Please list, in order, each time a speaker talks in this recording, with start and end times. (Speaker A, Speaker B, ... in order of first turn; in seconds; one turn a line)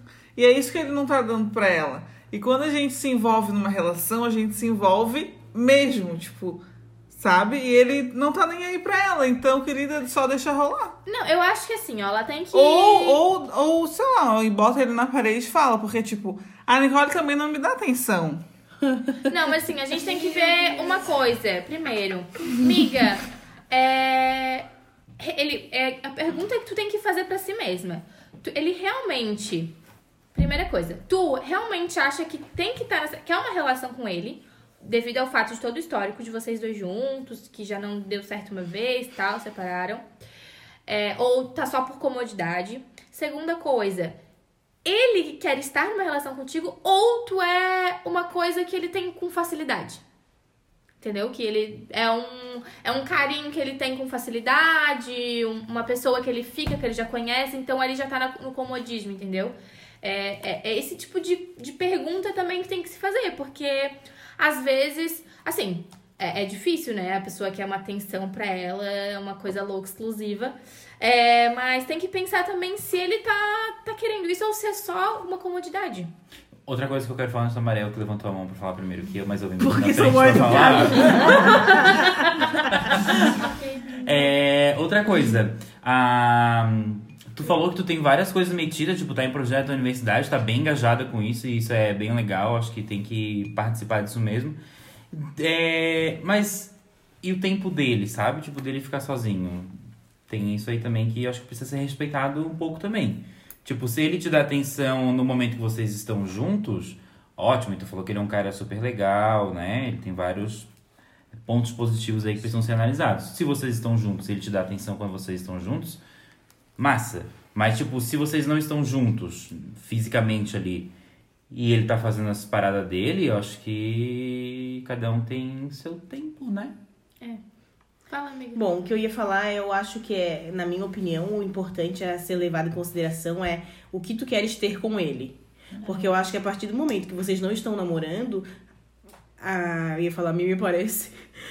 Speaker A: 0.4-11.0
Speaker B: 11.1-13.2
Speaker A: 12.5-18.4
Speaker B: 19.3-24.7
Speaker B: 25.2-29.8
Speaker B: 30.3-40.0
Speaker B: 40.9-44.2
Speaker B: 44.8-50.0
Speaker B: 51.0-76.1
Speaker C: 76.7-94.6
Speaker D: 79.6-82.2
Speaker B: 83.5-83.8
Speaker C: 95.1-99.7
Speaker C: 100.3-110.7
Speaker C: 111.5-116.0
Speaker C: 116.8-120.9
Speaker C: 121.5-126.8
Speaker B: 128.1-128.6
Speaker D: 128.6-138.5
Speaker D: 139.4-141.2